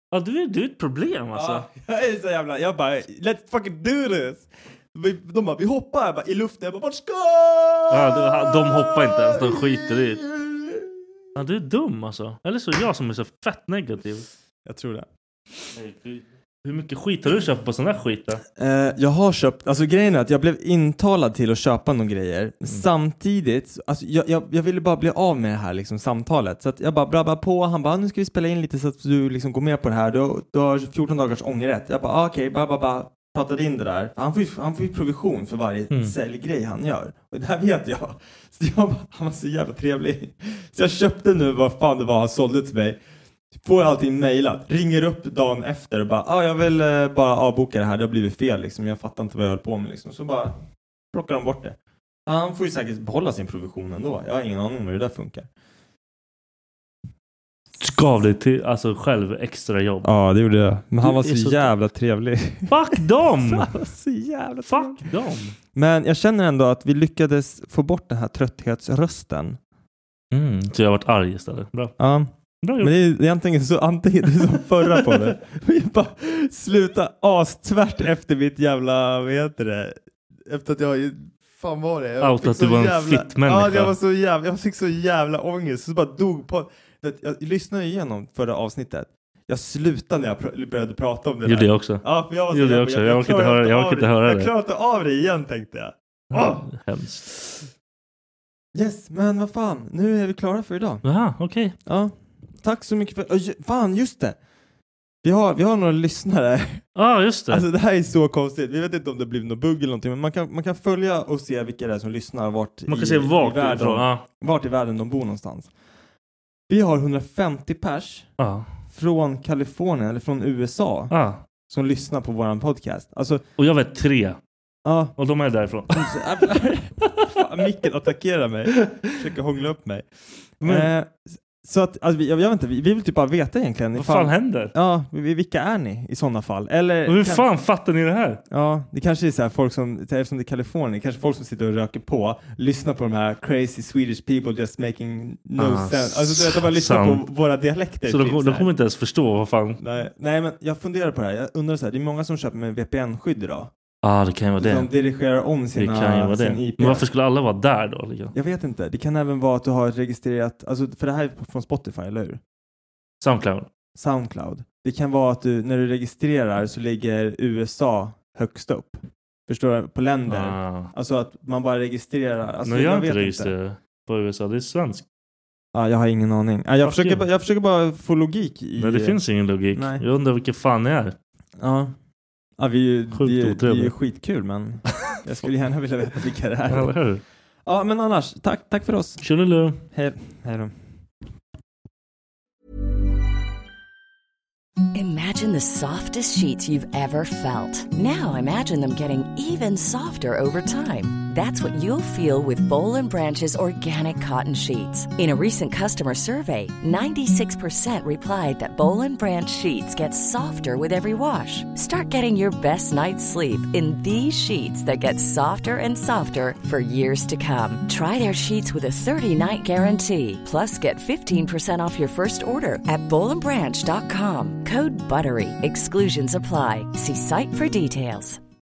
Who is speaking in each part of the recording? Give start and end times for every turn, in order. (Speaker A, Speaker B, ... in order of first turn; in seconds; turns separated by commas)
Speaker A: 0.1-1.6, Speaker B: 1.3-10.9, Speaker A: 7.9-10.2, Speaker A: 11.3-14.3, Speaker B: 14.7-15.1, Speaker A: 15.7-18.4, Speaker B: 18.6-43.0, Speaker B: 43.6-50.5, Speaker B: 51.1-55.5, Speaker A: 57.8-60.1, Speaker B: 60.0-65.1, Speaker A: 61.0-61.7, Speaker A: 62.7-63.7, Speaker A: 64.6-65.5, Speaker B: 65.7-69.6, Speaker A: 70.3-71.9, Speaker B: 72.0-96.6, Speaker A: 72.6-73.0, Speaker A: 74.8-75.3, Speaker A: 82.2-84.0, Speaker A: 91.4-94.5, Speaker A: 96.3-97.3, Speaker B: 98.7-101.0, Speaker A: 101.0-101.8, Speaker B: 101.8-104.3, Speaker B: 105.2-106.8, Speaker A: 106.9-107.7, Speaker B: 107.5-115.7, Speaker A: 112.9-114.2, Speaker B: 116.7-118.3, Speaker A: 118.4-118.7, Speaker B: 118.9-121.1, Speaker A: 121.1-121.4, Speaker B: 121.7-123.4, Speaker A: 123.6-124.4, Speaker B: 124.8-125.1, Speaker A: 125.2-126.2, Speaker B: 125.9-130.1, Speaker A: 128.7-129.1, Speaker A: 130.6-130.9, Speaker B: 130.6-137.4, Speaker A: 133.9-134.7, Speaker A: 137.1-138.4, Speaker B: 138.5-148.7, Speaker A: 145.6-147.2, Speaker A: 148.0-149.8, Speaker B: 149.8-153.7, Speaker A: 154.0-154.9, Speaker B: 154.6-157.1, Speaker A: 155.8-158.3, Speaker B: 158.3-162.4, Speaker A: 163.2-163.7, Speaker B: 163.9-173.5, Speaker A: 170.3-170.9, Speaker A: 172.6-175.0, Speaker B: 175.7-179.2, Speaker A: 176.8-177.2, Speaker A: 178.8-181.2, Speaker B: 179.7-180.0, Speaker B: 181.6-181.9, Speaker B: 182.6-186.9, Speaker A: 183.1-183.9, Speaker A: 186.7-187.2, Speaker B: 187.7-189.2, Speaker A: 189.2-189.8, Speaker B: 189.9-190.7, Speaker C: 194.9-228.4